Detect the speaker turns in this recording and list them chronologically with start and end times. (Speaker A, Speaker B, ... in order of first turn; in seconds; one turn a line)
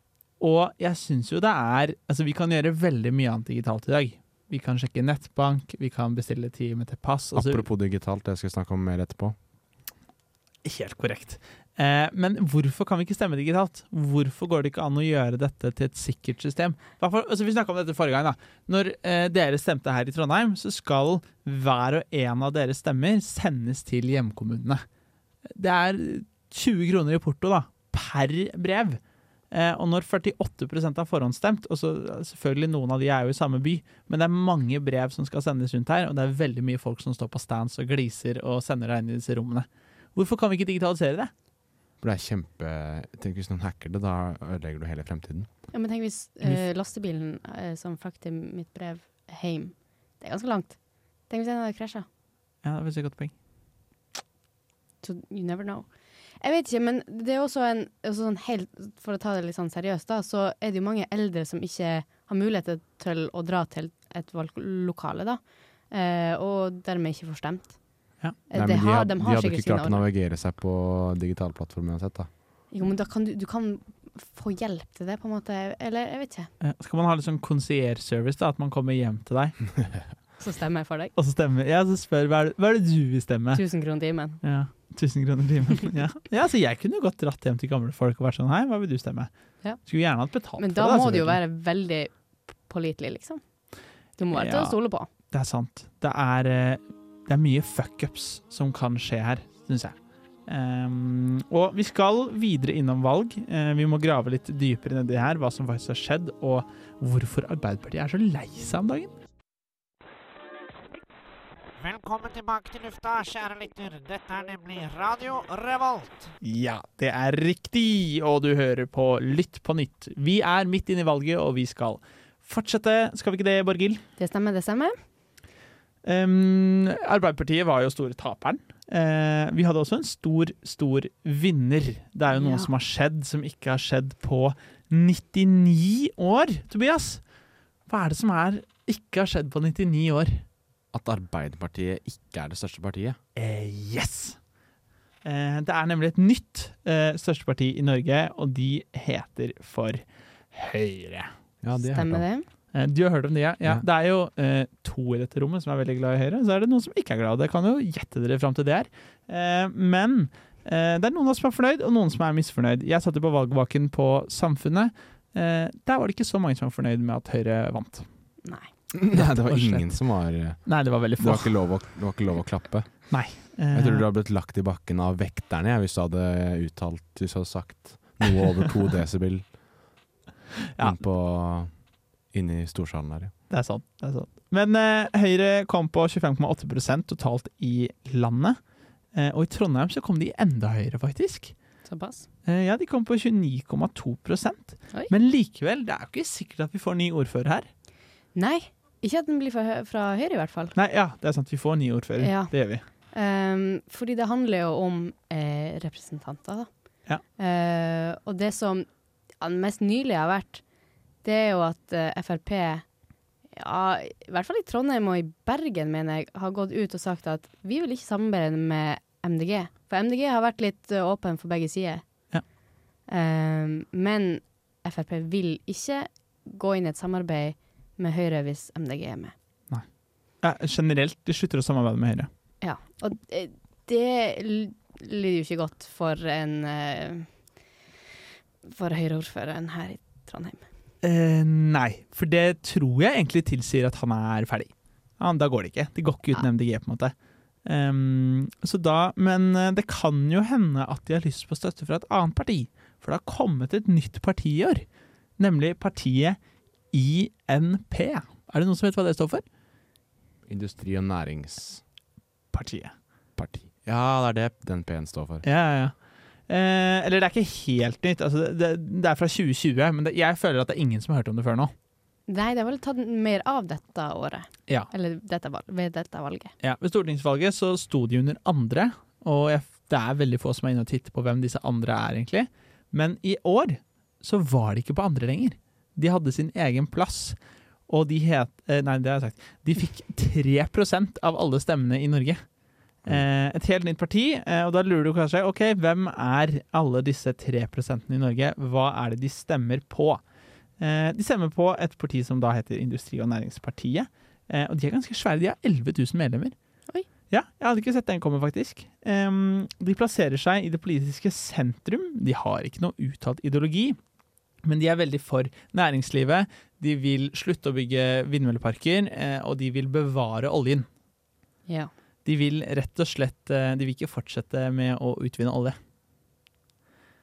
Speaker A: 0.4-7.6
Speaker B: 7.3-9.3
Speaker A: 10.6-24.8
Speaker A: 25.5-29.0
Speaker A: 29.5-41.3
Speaker B: 42.0-45.5
Speaker C: 45.7-50.8
Speaker C: 51.3-52.0
Speaker A: 52.6-53.3
Speaker C: 55.0-55.9
Speaker C: 56.4-67.8
Speaker C: 68.5-70.0
Speaker B: 68.5-72.3
Speaker C: 72.7-76.5
Speaker A: 76.6-79.6
Speaker C: 80.4-81.1
Speaker A: 81.2-83.6
Speaker C: 83.5-84.4
Speaker A: 84.4-89.3
Speaker A: 89.8-91.4
Speaker C: 90.6-92.1
Speaker C: 92.6-93.4
Speaker C: 94.2-95.1
Speaker A: 94.3-94.8
Speaker A: 95.3-100.0
Speaker A: 100.5-109.1
Speaker D: 111.8-116.3
Speaker A: 116.4-124.0
Speaker C: 124.2-124.9
Speaker A: 126.0-137.2
Speaker C: 132.3-132.7
Speaker A: 137.9-140.4
Speaker B: 140.9-143.2
Speaker A: 143.3-144.4
Speaker A: 145.2-151.3
Speaker B: 151.6-152.2
Speaker C: 151.8-152.5
Speaker A: 152.7-168.1
Speaker C: 168.4-168.7
Speaker B: 168.9-173.2
Speaker A: 169.1-169.9
Speaker A: 170.6-171.5
Speaker A: 173.1-174.0
Speaker B: 173.7-179.4
Speaker A: 180.7-181.0
Speaker B: 180.8-181.7
Speaker B: 182.3-183.3
Speaker A: 183.5-188.6
Speaker A: 189.1-191.5
Speaker C: 191.8-192.2
Speaker A: 192.4-197.7
Speaker C: 198.3-200.7
Speaker A: 200.8-202.8
Speaker C: 202.2-202.5
Speaker C: 203.1-206.7
Speaker C: 207.4-208.9
Speaker C: 209.4-210.6
Speaker C: 211.2-212.8
Speaker C: 213.5-222.0
Speaker C: 223.1-229.3
Speaker A: 230.4-232.3
Speaker C: 232.6-237.3
Speaker C: 238.6-240.6
Speaker A: 241.0-247.1
Speaker A: 247.6-254.8
Speaker A: 255.4-256.4
Speaker A: 256.9-259.4
Speaker B: 260.5-261.8
Speaker A: 262.5-262.9
Speaker B: 263.4-265.4
Speaker A: 265.4-265.9
Speaker A: 266.5-271.7
Speaker C: 272.3-276.5
Speaker A: 276.6-287.4
Speaker A: 287.9-292.4
Speaker A: 293.0-300.2
Speaker A: 300.8-306.5
Speaker A: 307.3-314.0
Speaker A: 314.6-320.9
Speaker A: 322.2-325.8